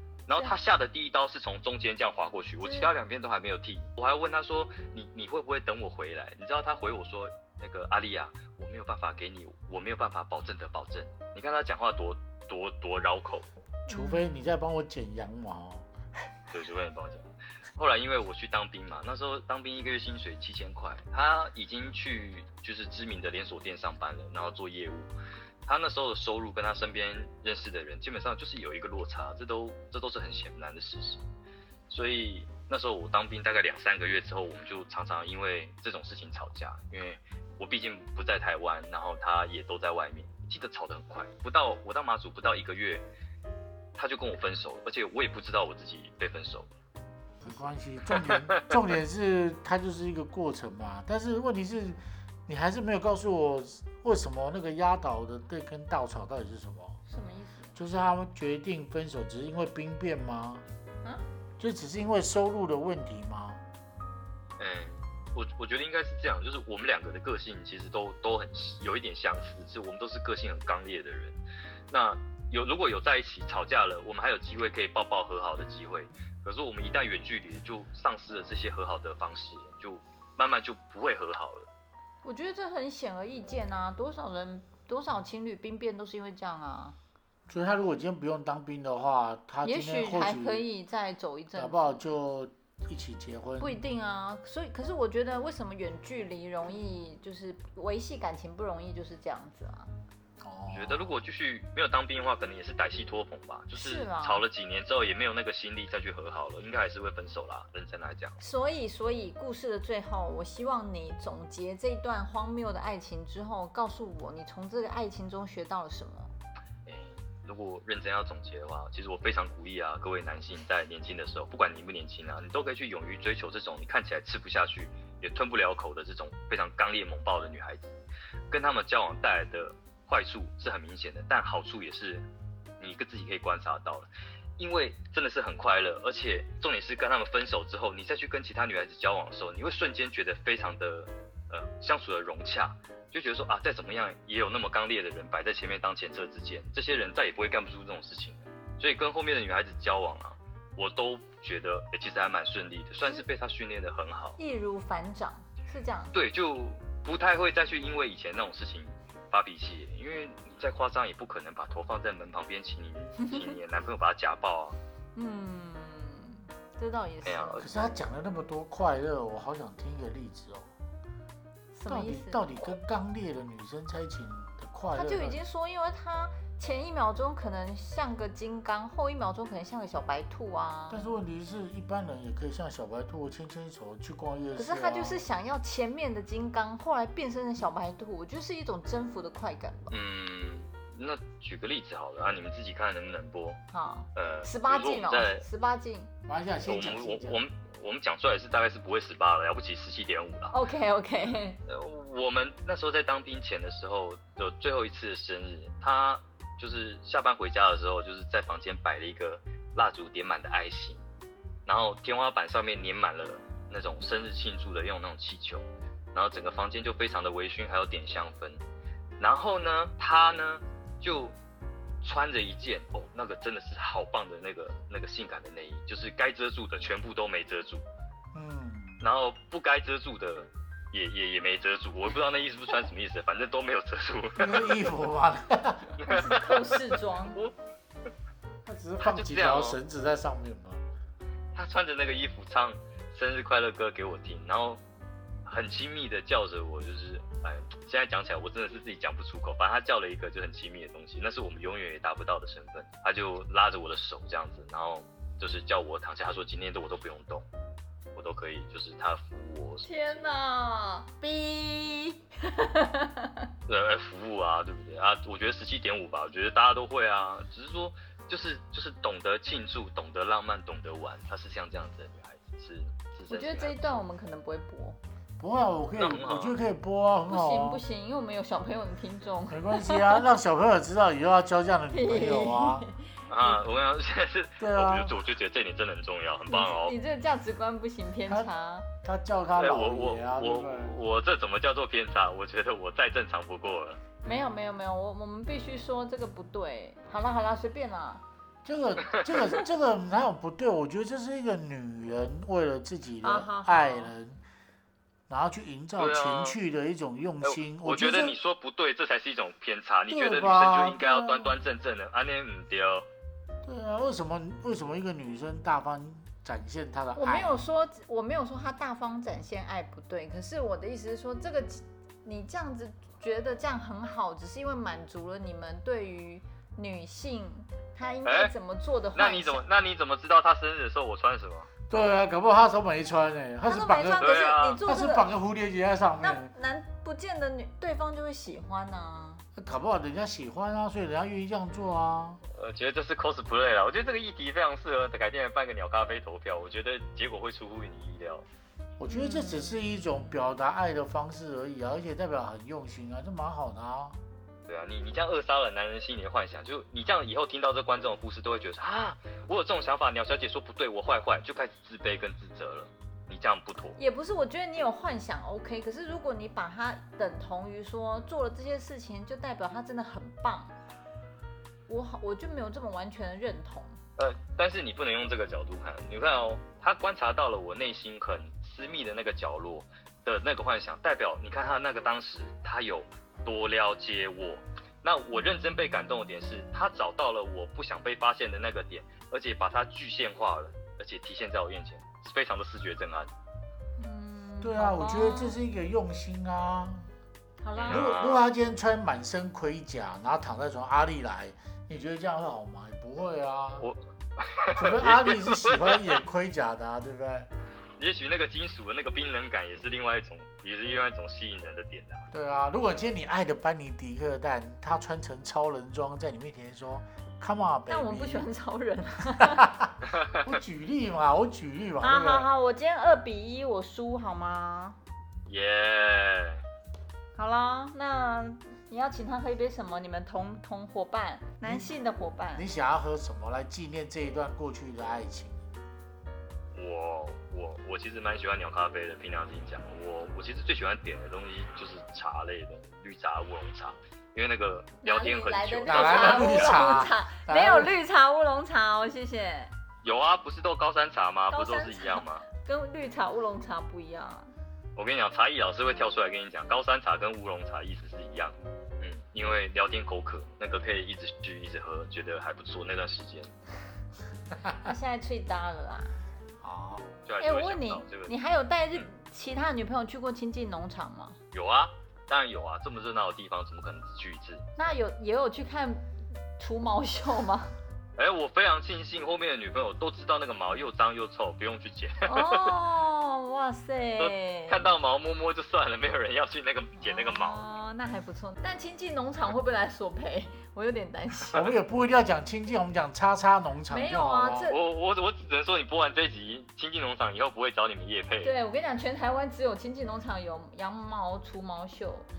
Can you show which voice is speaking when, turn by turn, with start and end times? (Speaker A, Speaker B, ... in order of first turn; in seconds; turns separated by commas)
Speaker A: 0.3-13.4, Speaker B: 2.6-2.9, Speaker C: 13.9-15.8, Speaker B: 13.9-14.2, Speaker A: 16.5-25.1, Speaker A: 25.6-31.2, Speaker A: 31.9-43.0, Speaker A: 44.0-46.7, Speaker C: 47.4-57.0, Speaker A: 48.1-48.8, Speaker B: 57.1-57.7, Speaker C: 57.7-60.6, Speaker C: 61.6-63.6, Speaker A: 64.6-71.4, Speaker A: 71.9-81.7, Speaker B: 82.2-87.0, Speaker C: 87.5-90.6, Speaker B: 89.6-92.0, Speaker C: 91.5-93.8, Speaker B: 93.6-99.9, Speaker C: 100.4-101.1, Speaker A: 100.7-108.4, Speaker B: 103.7-104.4, Speaker B: 108.4-116.3, Speaker A: 116.8-128.0, Speaker A: 128.5-132.2, Speaker A: 132.8-154.4, Speaker B: 154.4-156.1, Speaker A: 156.1-164.8, Speaker B: 163.2-163.5, Speaker B: 165.2-167.8, Speaker A: 167.2-167.7, Speaker C: 167.6-170.7, Speaker B: 171.7-172.5, Speaker C: 171.9-175.4, Speaker B: 174.9-181.0, Speaker C: 180.9-185.2, Speaker B: 184.5-190.0, Speaker A: 189.9-193.6, Speaker B: 193.7-196.1, Speaker A: 194.1-195.4, Speaker C: 196.3-197.4, Speaker A: 196.7-200.5, Speaker B: 200.5-201.6, Speaker A: 201.7-211.0, Speaker A: 211.7-218.6, Speaker A: 219.2-221.3, Speaker A: 222.0-227.8, Speaker C: 228.3-229.0, Speaker A: 229.0-234.7, Speaker C: 234.4-235.8, Speaker A: 236.0-236.8, Speaker B: 236.0-237.4, Speaker C: 238.6-240.8, Speaker A: 239.0-239.8, Speaker A: 241.5-244.8, Speaker A: 245.4-257.4, Speaker A: 258.1-260.3, Speaker B: 259.8-263.4, Speaker A: 263.7-274.0, Speaker B: 273.3-275.0, Speaker C: 275.4-277.8, Speaker A: 276.0-276.6, Speaker B: 277.3-280.2, Speaker C: 279.5-282.8, Speaker B: 281.9-283.6, Speaker A: 283.3-286.9, Speaker C: 284.6-285.1, Speaker B: 286.5-288.9, Speaker C: 288.2-288.5, Speaker C: 289.0-290.9, Speaker A: 289.6-294.0, Speaker B: 294.2-298.2, Speaker C: 298.6-304.4, Speaker A: 299.1-299.4, Speaker B: 303.2-304.1, Speaker C: 305.3-308.4, Speaker A: 306.0-306.6, Speaker A: 307.4-313.1, Speaker C: 310.1-311.5, Speaker C: 313.6-317.6, Speaker B: 317.1-329.6, Speaker A: 328.2-328.5, Speaker A: 329.1-331.7, Speaker C: 331.9-336.5, Speaker B: 333.6-335.2, Speaker A: 334.2-334.8, Speaker B: 336.2-339.4, Speaker C: 339.6-342.4, Speaker A: 342.5-348.4, Speaker C: 349.0-354.2, Speaker B: 349.1-349.8, Speaker A: 354.7-364.0, Speaker B: 364.0-370.7, Speaker B: 371.9-374.0, Speaker A: 374.2-393.3, Speaker B: 394.0-395.5, Speaker C: 394.6-397.1, Speaker B: 397.6-398.2, Speaker A: 397.8-398.4, Speaker C: 397.9-403.9, Speaker A: 403.8-406.2, Speaker C: 404.7-407.5, Speaker A: 408.0-412.3, Speaker C: 412.3-418.5, Speaker B: 417.9-419.7, Speaker C: 419.4-422.5, Speaker A: 420.1-420.6, Speaker B: 422.0-425.0, Speaker A: 425.5-426.6, Speaker B: 427.4-432.7, Speaker C: 431.6-431.9, Speaker C: 432.5-435.6, Speaker A: 436.7-446.9, Speaker B: 445.0-449.7, Speaker C: 445.9-447.9, Speaker A: 450.0-452.4, Speaker B: 451.5-454.5, Speaker A: 454.9-463.5, Speaker B: 464.8-466.2, Speaker C: 466.6-467.0, Speaker A: 467.2-468.3, Speaker B: 467.4-471.4, Speaker A: 471.5-474.6, Speaker B: 474.8-477.7, Speaker A: 478.2-482.7, Speaker B: 482.2-484.9, Speaker A: 484.2-487.6, Speaker B: 487.0-491.6, Speaker C: 491.5-494.7, Speaker B: 493.9-494.8, Speaker A: 494.7-498.5, Speaker B: 498.4-502.3